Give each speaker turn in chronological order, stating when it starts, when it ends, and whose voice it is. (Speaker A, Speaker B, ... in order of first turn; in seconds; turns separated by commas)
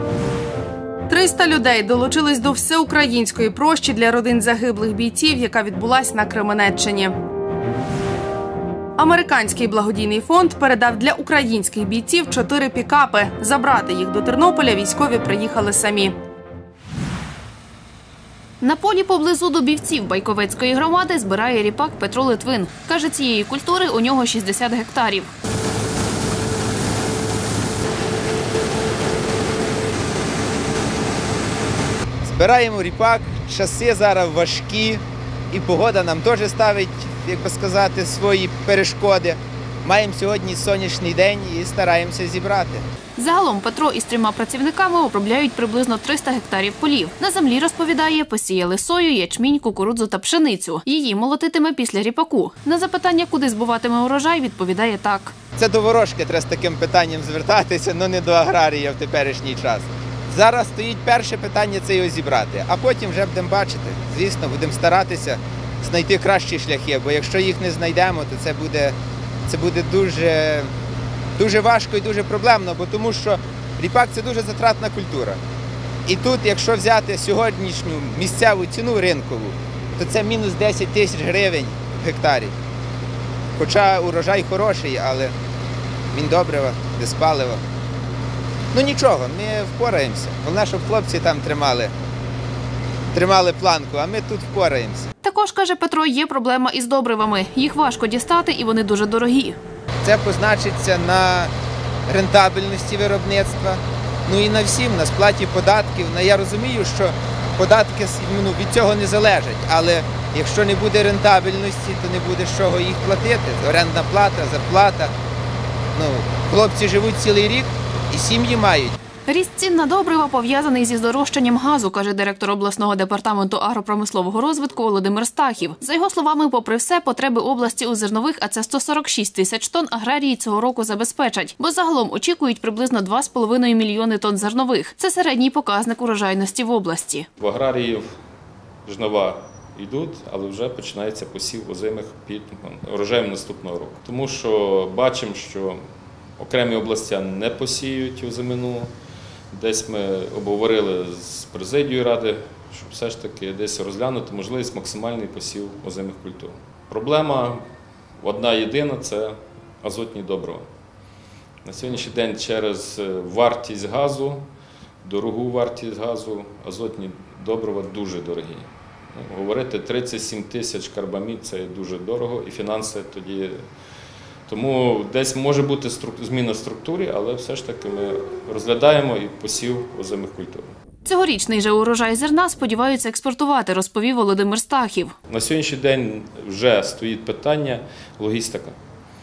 Speaker A: 1.1-7.2, Speaker A: 9.0-16.2, Speaker B: 18.6-25.3, Speaker C: 32.3-42.8, Speaker B: 43.2-55.3, Speaker C: 55.6-68.9, Speaker C: 69.5-70.7, Speaker C: 71.4-75.4, Speaker C: 76.1-82.5, Speaker C: 83.6-85.3, Speaker C: 86.1-87.6, Speaker C: 88.7-91.9, Speaker C: 93.1-95.1, Speaker B: 95.2-99.6, Speaker C: 100.0-101.5, Speaker C: 102.1-115.1, Speaker C: 115.9-118.9, Speaker B: 119.3-137.2, Speaker D: 137.4-138.0, Speaker D: 138.9-145.8, Speaker D: 146.4-148.9, Speaker D: 149.6-157.6, Speaker D: 158.2-160.7, Speaker D: 161.6-164.4, Speaker D: 165.1-173.5, Speaker D: 174.5-180.7, Speaker B: 181.1-185.1, Speaker D: 185.4-188.7